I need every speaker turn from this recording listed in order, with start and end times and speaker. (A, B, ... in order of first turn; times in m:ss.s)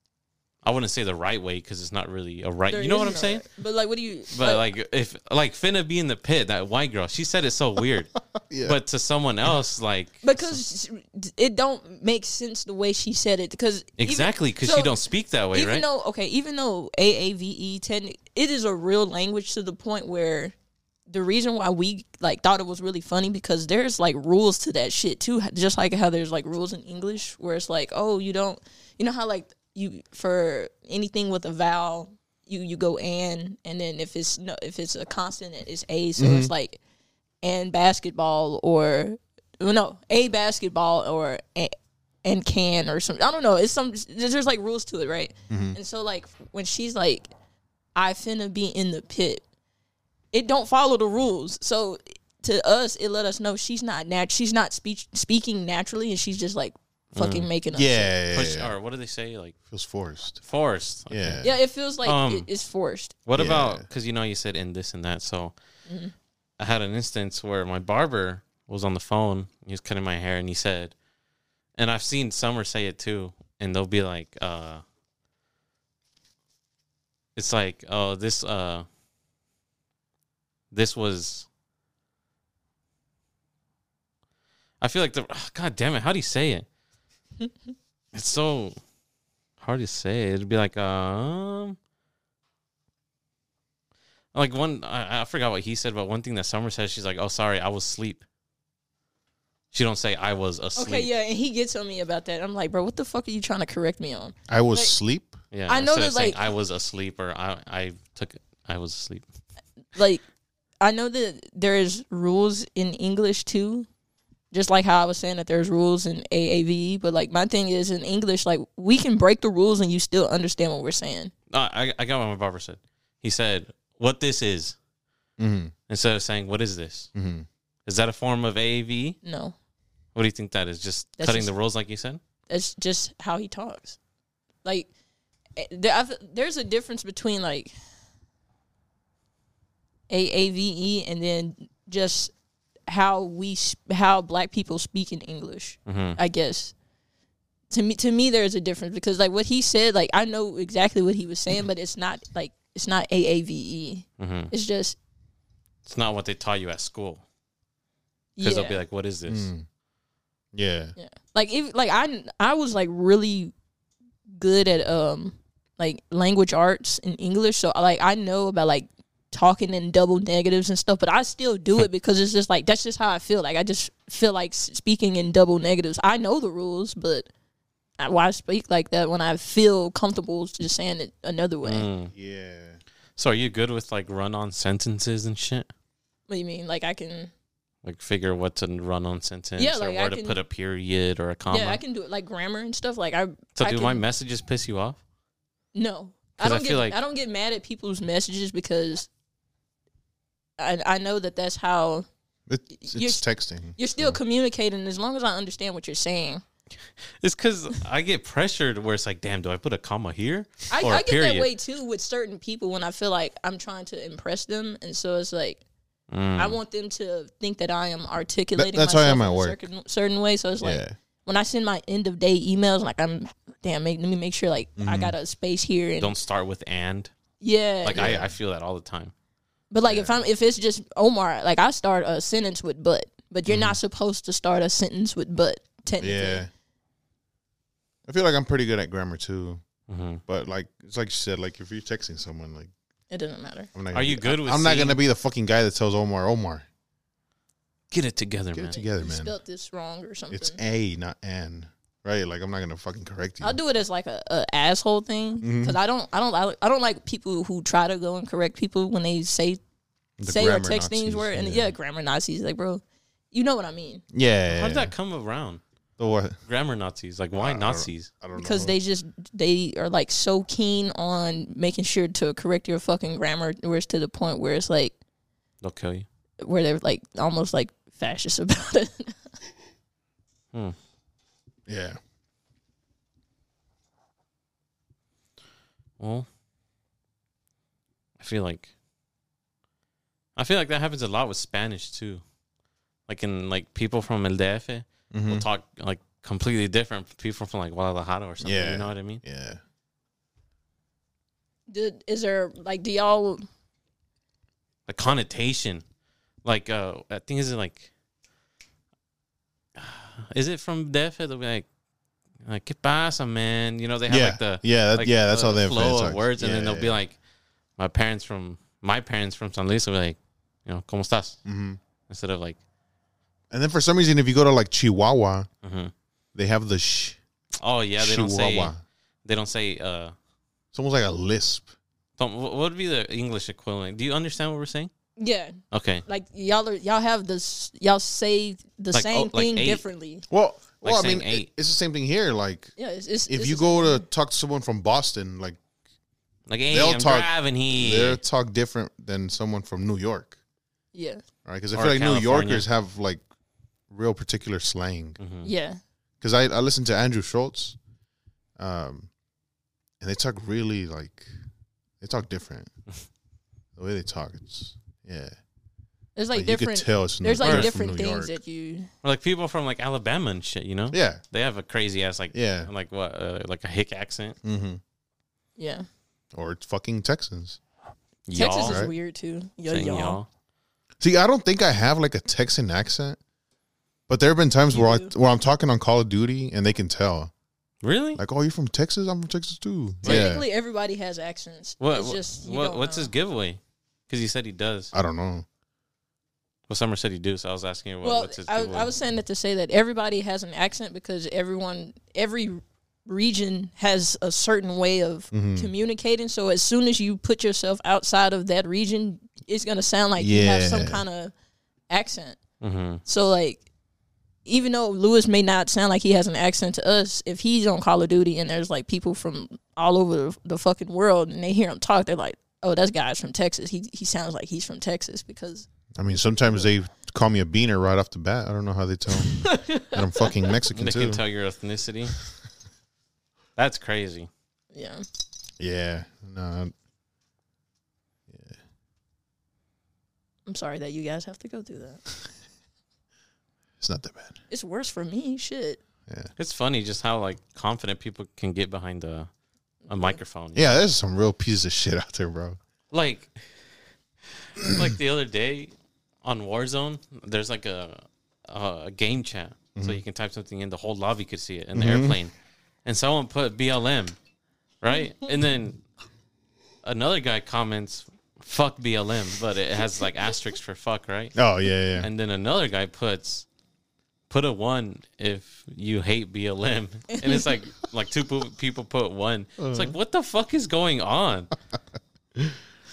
0:00.6-0:03.5 A
0:02.7-0:04.6 B
0:04.3-0:10.6 A
0:08.4-0:08.8 C
0:10.2-0:15.0 B
0:14.0-0:15.8 A
0:15.5-0:20.5 B
0:21.1-0:36.8 B
0:36.2-0:36.5 C
0:37.4-0:47.3 B
0:45.5-0:45.8 C
0:48.0-0:49.4 B
0:50.3-0:58.1 B
0:57.2-0:57.5 A
0:57.7-0:58.7 C
0:58.3-0:59.6 A
0:59.7-1:00.4 C
1:00.4-1:01.4 A
1:01.1-1:01.6 C
1:01.4-1:03.1 B
1:02.0-1:02.5 A
1:03.2-1:05.5 A
1:03.3-1:03.9 C
1:05.9-1:06.1 B
1:06.6-1:10.9 A
1:11.8-1:14.8 A
1:17.4-1:18.8 A
1:20.7-1:21.5 A
1:24.8-1:26.7 A
1:28.1-1:28.8 A
1:29.6-1:31.8 A
1:34.3-1:38.2 A
1:39.7-1:41.1 A
1:40.8-1:45.0 B
1:44.5-1:45.4 C
1:45.5-1:49.2 A
1:45.7-1:46.4 B
1:49.9-1:50.2 B
1:50.8-1:53.9 B
1:54.5-2:01.3 B
2:01.5-2:04.8 A
2:05.4-2:05.7 C
2:05.9-2:07.1 A
2:07.1-2:07.5 C
2:07.8-2:09.2 A
2:09.2-2:09.5 B
2:10.1-2:12.2 A
2:11.2-2:11.5 B
2:12.5-2:14.0 B
2:14.6-2:14.9 B
2:15.6-2:17.7 B
2:20.1-2:22.3 B
2:22.9-2:26.7 B
2:25.9-2:26.2 A
2:27.7-2:35.0 B
2:34.2-2:34.5 A
2:35.8-2:37.2 A
2:38.4-2:38.8 B
2:38.4-2:39.5 A
2:39.3-2:39.6 C
2:40.5-2:41.0 C
2:41.0-2:43.5 B
2:44.3-2:57.3 B
2:58.0-3:01.9 B
3:01.6-3:02.1 A
3:02.1-3:02.8 C
3:03.2-3:05.7 A
3:06.3-3:07.3 B
3:07.8-3:11.8 A
3:09.6-3:10.4 B
3:11.5-3:14.0 B
3:13.6-3:15.0 A
3:15.7-3:19.1 B
3:16.4-3:17.0 A
3:20.6-3:22.0 B
3:22.5-3:24.2 C
3:22.7-3:23.2 B
3:23.8-3:26.4 B
3:27.2-3:31.5 A
3:30.7-3:35.6 B
3:36.1-3:36.6 A
3:36.4-3:46.1 B
3:38.6-3:39.6 C
3:40.6-3:41.0 C
3:44.8-3:45.1 C
3:46.0-3:47.1 A
3:47.4-3:48.0 B
3:47.8-3:49.1 A
3:47.9-3:48.3 C
3:49.7-3:56.4 B
3:49.8-3:50.2 C
3:53.5-3:53.8 C
3:56.0-3:56.5 C
3:58.0-3:59.6 C
3:59.9-4:00.2 A
4:00.3-4:02.7 C
4:03.1-4:03.7 B
4:03.7-4:06.6 C
4:03.9-4:05.0 A
4:07.9-4:08.8 A
4:08.5-4:09.3 C
4:08.7-4:10.6 B
4:10.3-4:13.6 C
4:13.4-4:19.6 B
4:15.4-4:15.8 C
4:20.2-4:21.7 C
4:20.2-4:24.0 B
4:24.1-4:24.9 C
4:24.5-4:25.6 A
4:26.0-4:26.4 C
4:26.4-4:28.1 A
4:27.3-4:28.8 C
4:28.4-4:35.0 B
4:35.6-4:36.0 A
4:36.4-4:39.2 B
4:41.7-4:42.0 C
4:46.0-4:46.3 A
4:48.2-4:48.7 A
4:50.4-4:52.2 A
4:53.1-4:59.2 A
4:55.1-4:55.4 C
4:58.4-4:59.6 C
5:01.7-5:03.4 B
5:04.9-5:05.8 A
5:06.4-5:07.9 A
5:09.8-5:11.6 A
5:12.4-5:17.2 A
5:14.1-5:17.0 C
5:17.8-5:21.4 A
5:21.4-5:21.8 C
5:22.1-5:22.6 A
5:23.5-5:25.5 C
5:25.6-5:25.9 A
5:26.3-5:27.2 C
5:27.6-5:28.7 A
5:28.0-5:28.8 C
5:29.2-5:30.1 A
5:30.7-5:31.7 C
5:32.2-5:34.9 A
5:35.2-5:35.6 B
5:35.7-5:36.0 A
5:36.1-5:40.2 B
5:38.9-5:39.8 A
5:40.3-5:42.7 C
5:40.8-5:41.5 A
5:42.8-5:44.0 B
5:43.3-5:45.6 C
5:46.5-5:48.2 A
5:46.7-5:50.4 C
5:50.9-5:51.2 B
5:51.4-5:53.2 C
5:51.7-5:52.7 A
5:53.9-5:55.2 C
5:55.2-5:55.5 A
5:55.4-5:55.8 B
5:56.2-5:57.8 C
5:58.6-5:59.1 C
6:00.0-6:01.3 C
6:02.0-6:02.7 C
6:03.8-6:05.4 C
6:06.2-6:08.9 B
6:06.3-6:08.4 C
6:07.4-6:07.7 A
6:09.0-6:14.4 A
6:10.9-6:11.2 C
6:12.3-6:12.7 C
6:14.4-6:14.8 C
6:15.6-6:15.9 B
6:16.3-6:17.6 C
6:18.3-6:18.8 A
6:18.3-6:20.2 B
6:18.6-6:18.9 C
6:19.7-6:20.3 A
6:21.0-6:23.2 C
6:24.1-6:27.3 C
6:24.7-6:25.1 B
6:27.8-6:28.2 A
6:28.2-6:30.4 C
6:30.0-6:30.3 A
6:30.0-6:33.1 B
6:31.8-6:34.9 A
6:34.9-6:35.4 C
6:36.7-6:38.9 A
6:38.0-6:51.3 B
6:45.3-6:45.7 C
6:50.2-6:51.0 C
6:51.9-6:52.4 B
6:52.6-6:53.0 A
6:53.0-6:53.6 B
6:54.4-7:05.7 B
7:06.0-7:11.2 C
7:09.2-7:10.3 B
7:10.7-7:12.2 A
7:13.6-7:14.3 A
7:14.7-7:15.0 B
7:15.6-7:16.7 C
7:18.3-7:18.6 C
7:20.4-7:22.0 B
7:23.8-7:24.4 C
7:24.5-7:25.8 B
7:26.1-7:26.3 C
7:26.4-7:29.3 A
7:29.9-7:30.2 B
7:29.9-7:30.9 A
7:30.5-7:32.6 C
7:32.9-7:33.4 A
7:34.5-7:35.7 A
7:36.2-7:42.3 A
7:39.7-7:40.0 C
7:41.7-7:42.2 C
7:42.8-7:44.2 A
7:44.8-7:45.8 A
7:46.8-7:51.4 A
7:51.4-7:52.1 C
7:52.0-7:53.4 A
7:54.3-8:01.5 A
7:57.1-7:57.5 B
7:59.6-8:00.0 C